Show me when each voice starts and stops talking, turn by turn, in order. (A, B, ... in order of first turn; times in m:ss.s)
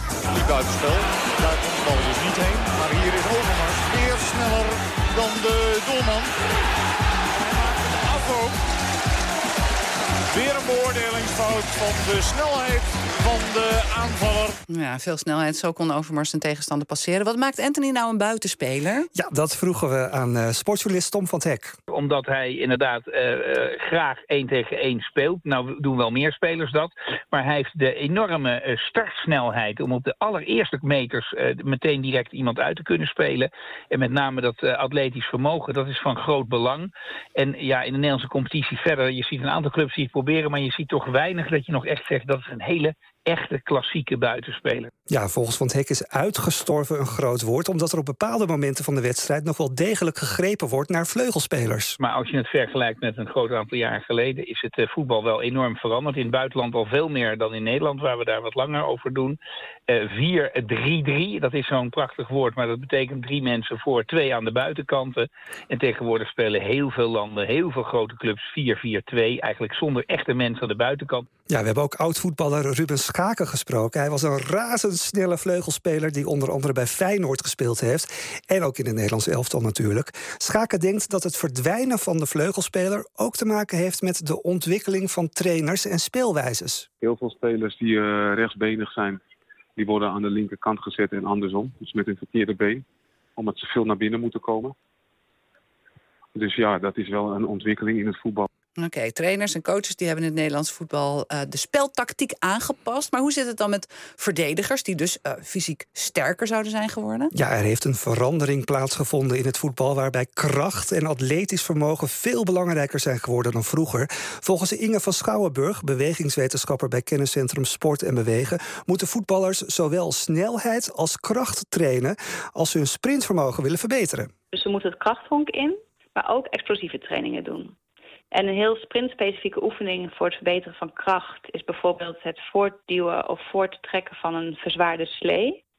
0:00.3-0:06.3 A
0:07.4-0:08.6 A
0:10.3-0:14.6 A
0:14.7-0:19.1 B
0:19.1-0:21.7 C
0:21.9-0:44.9 D
0:45.1-0:52.0 C
0:52.0-1:11.2 D
1:11.5-1:26.8 C
1:27.0-1:29.2 E
1:29.8-1:32.8 E
1:33.4-1:34.7 E
1:36.3-1:38.5 E
1:38.8-1:47.3 B
1:47.3-2:04.3 C
2:04.5-2:07.7 F
2:08.3-2:15.6 F